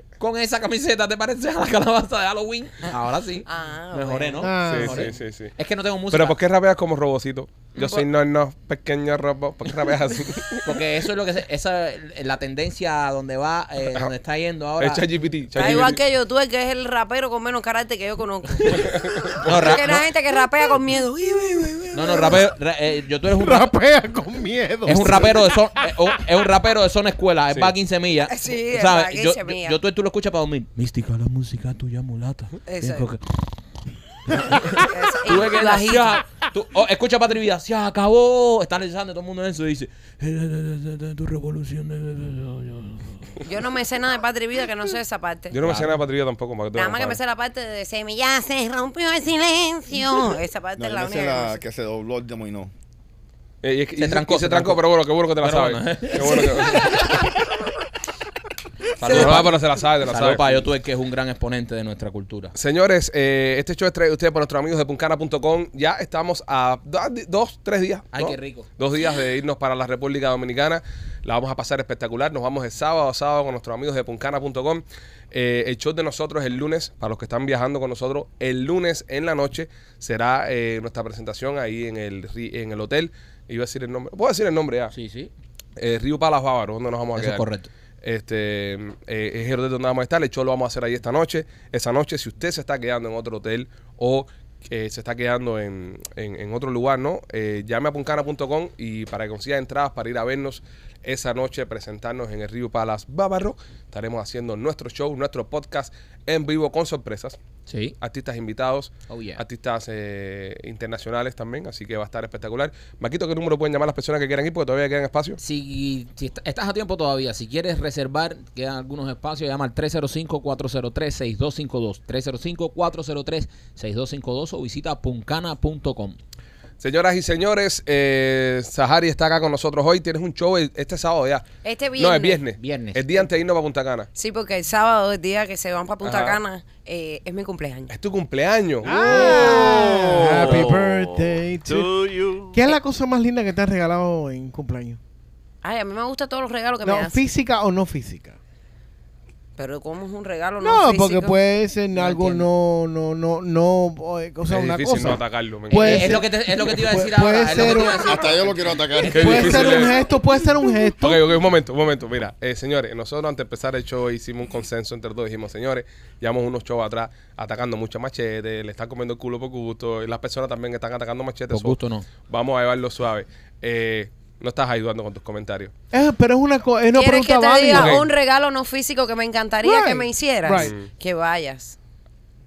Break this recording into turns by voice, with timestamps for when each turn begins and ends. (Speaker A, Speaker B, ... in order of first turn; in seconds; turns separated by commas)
Speaker A: 0.2-6.4, Speaker B: 3.5-4.6, Speaker C: 4.4-5.1, Speaker D: 4.7-5.5, Speaker D: 6.1-10.8, Speaker A: 10.6-15.0, Speaker D: 14.8-16.0, Speaker B: 15.6-19.0, Speaker A: 18.6-18.9, Speaker D: 18.7-19.8, Speaker A: 19.4-20.1, Speaker B: 19.6-22.4, Speaker A: 21.9-23.7, Speaker C: 23.4-25.6, Speaker A: 24.9-33.3, Speaker D: 27.5-27.8, Speaker B: 28.3-29.8, Speaker B: 32.7-33.1, Speaker A: 34.3-43.4, Speaker B: 34.9-36.2, Speaker B: 43.4-45.6, Speaker D: 45.5-47.2, Speaker A: 45.6-46.0, Speaker B: 46.7-51.6, Speaker E: 50.8-52.7, Speaker D: 53.6-57.3, Speaker A: 54.0-54.9, Speaker A: 55.4-57.3, Speaker A: 59.0-62.5, Speaker B: 59.0-59.4, Speaker D: 59.1-60.5, Speaker D: 62.6-84.9, Speaker A: 68.1-68.7, Speaker A: 84.9-85.3, Speaker D: 85.8-87.5, Speaker A: 87.2-87.7, Speaker D: 88.0-107.4, Speaker A: 107.7-108.0, Speaker D: 108.0-115.4, Speaker A: 109.1-109.4, Speaker A: 115.4-126.2, Speaker D: 126.8-131.5, Speaker B: 131.6-132.4, Speaker D: 132.0-134.1, Speaker A: 132.6-133.2, Speaker B: 134.2-137.9, Speaker D: 136.0-136.4, Speaker D: 137.9-140.7, Speaker C: 138.8-141.9, Speaker F: 138.9-142.6, Speaker B: 139.2-139.8, Speaker C: 142.5-145.0, Speaker B: 145.6-147.2, Speaker C: 146.8-148.4, Speaker B: 149.6-151.4, Speaker C: 150.6-158.3, Speaker A: 151.9-152.4, Speaker D: 154.5-156.2, Speaker A: 155.7-159.5, Speaker E: 157.8-159.9, Speaker C: 159.1-161.2, Speaker D: 159.1-160.0, Speaker D: 161.0-171.8, Speaker A: 171.5-172.1, Speaker D: 172.3-175.7, Speaker C: 175.9-178.0, Speaker B: 176.9-181.8, Speaker D: 177.7-178.1, Speaker C: 179.6-180.7, Speaker D: 180.6-180.9